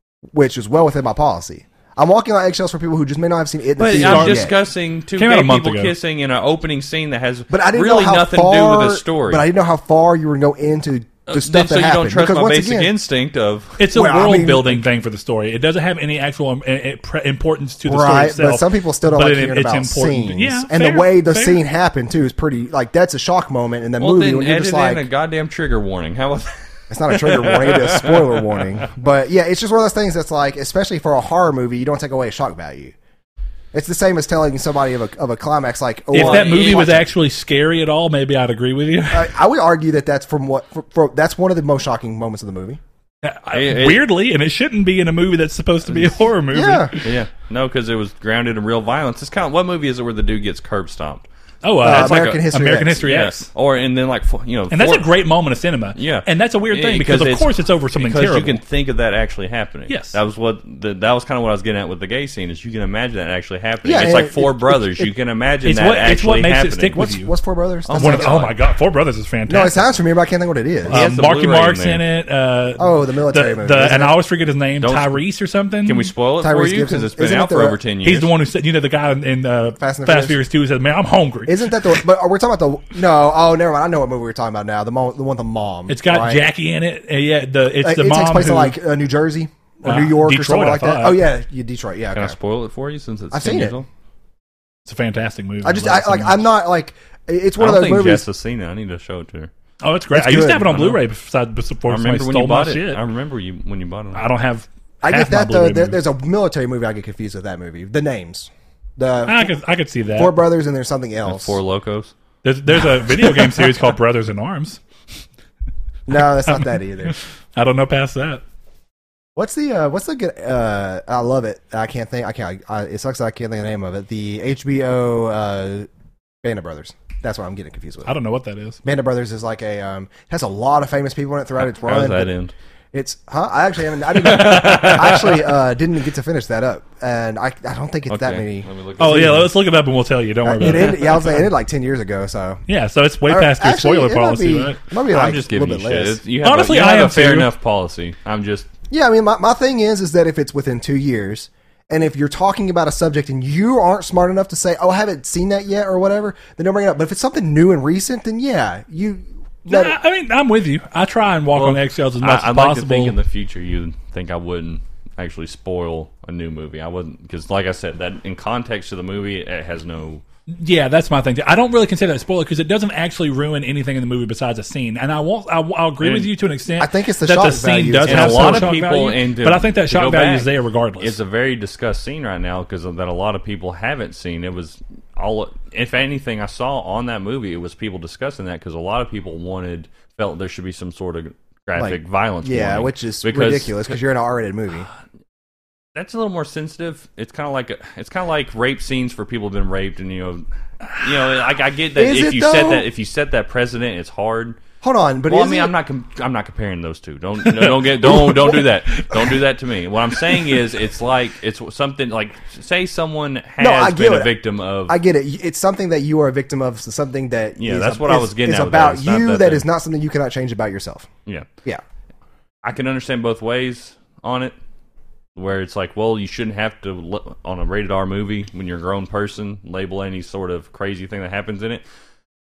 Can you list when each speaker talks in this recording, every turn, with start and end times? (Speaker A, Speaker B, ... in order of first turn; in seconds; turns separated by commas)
Speaker A: 0.3-4.5, Speaker B: 3.8-9.4, Speaker C: 3.9-4.5, Speaker C: 5.2-5.9, Speaker A: 7.5-12.9, Speaker B: 11.3-13.8, Speaker C: 13.8-21.6, Speaker A: 13.9-14.8, Speaker A: 17.9-25.0, Speaker B: 24.0-28.8, Speaker A: 26.9-32.9, Speaker A: 33.7-37.0, Speaker B: 36.1-37.1, Speaker C: 36.1-39.3, Speaker A: 39.1-42.8, Speaker C: 43.2-47.1, Speaker B: 43.5-44.0, Speaker B: 45.9-46.2, Speaker A: 46.5-46.9, Speaker B: 47.0-51.2, Speaker C: 51.6-53.5, Speaker B: 51.8-52.4, Speaker A: 51.8-53.0, Speaker B: 53.0-55.1, Speaker C: 54.7-58.6, Speaker B: 56.0-67.0, Speaker C: 59.9-60.2, Speaker A: 63.8-65.1, Speaker C: 65.6-67.3, Speaker A: 67.0-68.4, Speaker B: 67.9-68.5, Speaker C: 68.0-69.8, Speaker A: 69.5-71.1, Speaker B: 70.9-72.0, Speaker C: 70.9-76.1, Speaker A: 72.8-74.1, Speaker B: 74.8-75.2, Speaker B: 75.8-78.3, Speaker A: 76.4-77.8, Speaker C: 78.0-82.0, Speaker A: 79.8-80.4, Speaker A: 81.5-86.4, Speaker C: 85.9-88.8, Speaker A: 87.8-92.3, Speaker C: 89.8-91.2, Speaker B: 92.1-93.9, Speaker A: 93.3-93.7, Speaker C: 94.8-96.5, Speaker A: 95.6-98.2, Speaker B: 97.6-99.5, Speaker C: 99.8-103.0, Speaker A: 100.1-100.8, Speaker B: 100.7-101.0, Speaker B: 101.9-104.2, Speaker C: 104.1-106.0, Speaker A: 105.0-109.5, Speaker C: 109.2-110.3, Speaker A: 110.1-111.6, Speaker B: 111.2-112.1, Speaker C: 112.4-114.8, Speaker A: 116.1-117.1, Speaker C: 116.5-118.4, Speaker A: 119.3-125.9, Speaker A: 126.4-128.1, Speaker C: 128.1-128.8, Speaker A: 128.8-132.3, Speaker B: 131.8-132.5, Speaker A: 132.9-139.4, Speaker B: 134.1-135.4, Speaker B: 138.1-139.5, Speaker C: 139.0-141.3, Speaker A: 140.4-142.6, Speaker C: 142.7-144.8, Speaker A: 143.3-146.2, Speaker B: 145.0-148.7, Speaker C: 146.4-147.5, Speaker A: 148.9-159.9, Speaker C: 159.7-163.2, Speaker B: 161.5-170.2, Speaker C: 170.5-181.1, Speaker B: 176.0-176.3, Speaker A: 176.8-178.7, Speaker B: 178.1-193.8, Speaker A: 191.8-194.9, Speaker B: 195.9-204.6, Speaker A: 201.9-202.9, Speaker A: 204.8-205.7, Speaker B: 205.3-215.0, Speaker C: 207.4-209.4, Speaker C: 210.2-210.6, Speaker A: 213.6-214.3, Speaker A: 214.9-221.1, Speaker B: 217.6-219.6, Speaker B: 222.6-224.5, Speaker B: 225.3-231.8